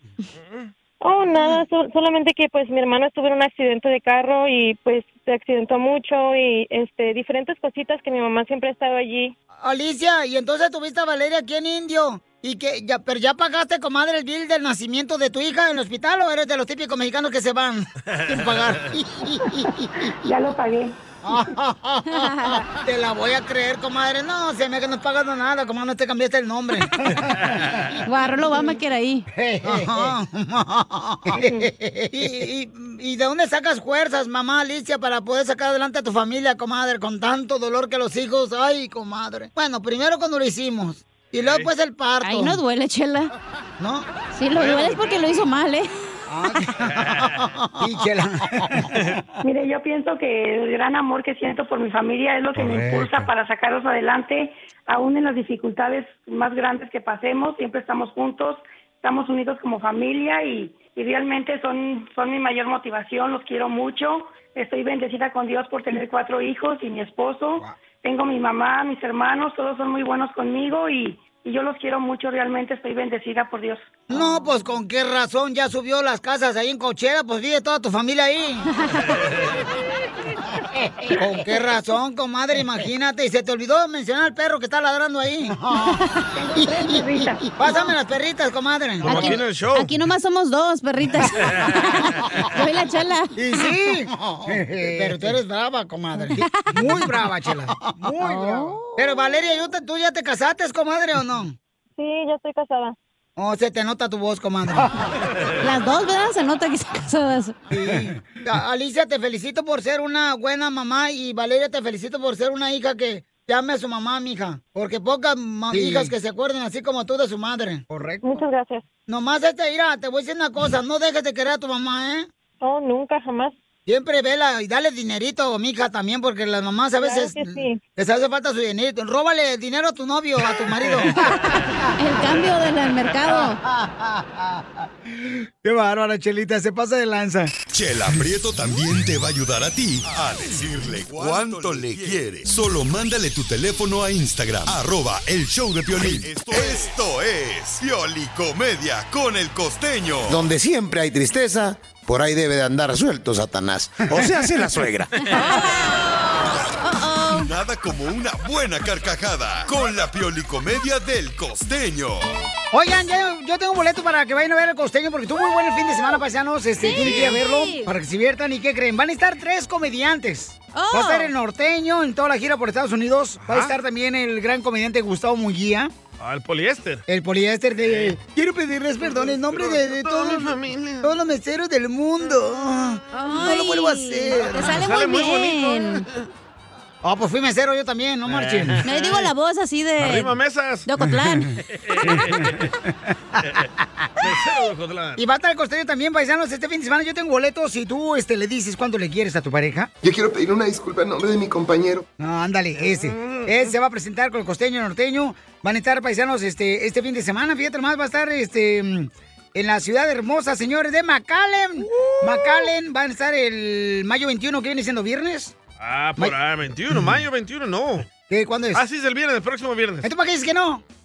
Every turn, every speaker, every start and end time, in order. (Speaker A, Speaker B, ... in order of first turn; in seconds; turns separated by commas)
Speaker A: 0.4-0.7, Speaker B: 1.0-9.3, Speaker C: 9.6-19.9, Speaker A: 18.2-18.8, Speaker D: 20.0-21.0, Speaker C: 21.2-27.9, Speaker E: 22.1-22.6, Speaker A: 27.1-27.5, Speaker E: 28.1-29.3, Speaker C: 29.4-42.6, Speaker A: 41.4-41.7, Speaker E: 42.2-43.3, Speaker C: 43.8-44.1, Speaker E: 44.3-45.9, Speaker A: 44.5-45.1, Speaker C: 46.3-49.1, Speaker A: 46.9-47.4, Speaker D: 49.4-73.9, Speaker C: 74.1-78.8, Speaker E: 78.8-79.2, Speaker C: 81.1-86.0, Speaker D: 86.4-87.8, Speaker C: 86.6-89.4, Speaker A: 89.0-89.9, Speaker E: 89.0-93.6, Speaker C: 93.4-101.5, Speaker E: 96.3-97.1, Speaker E: 98.2-99.2, Speaker B: 102.0-103.0, Speaker C: 103.4-105.1, Speaker E: 105.6-107.5, Speaker C: 107.7-118.5, Speaker B: 118.2-118.8, Speaker C: 119.1-122.3, Speaker B: 122.6-123.6, Speaker C: 123.9-131.3, Speaker B: 127.0-127.8, Speaker E: 132.0-133.6, Speaker C: 133.3-137.6, Speaker F: 137.7-150.4, Speaker G: 150.3-155.2, Speaker E: 155.2-156.2, Speaker E: 156.8-157.5, Speaker F: 157.3-162.3, Speaker C: 162.7-175.9, Speaker E: 166.8-167.9, Speaker A: 166.8-167.4, Speaker E: 170.7-171.3, Speaker A: 173.4-173.8, Speaker A: 176.2-177.1, Speaker C: 177.1-184.8, Speaker A: 177.8-178.2, Speaker A: 179.0-181.1, Speaker E: 183.1-186.1, Speaker A: 184.5-186.3, Speaker C: 187.0-188.9, Speaker A: 188.3-189.3, Speaker E: 188.8-190.3, Speaker A: 190.0-190.9, Speaker E: 190.9-192.3, Speaker A: 191.7-192.7, Speaker A: 194.2-195.2, Speaker C: 195.2-199.9, Speaker H: 200.0-202.1, Speaker C: 202.2-215.5, Speaker A: 202.8-203.7, Speaker A: 212.0-212.6, Speaker A: 215.8-218.1, Speaker C: 218.3-218.8, Speaker A: 218.7-220.1, Speaker C: 220.0-220.8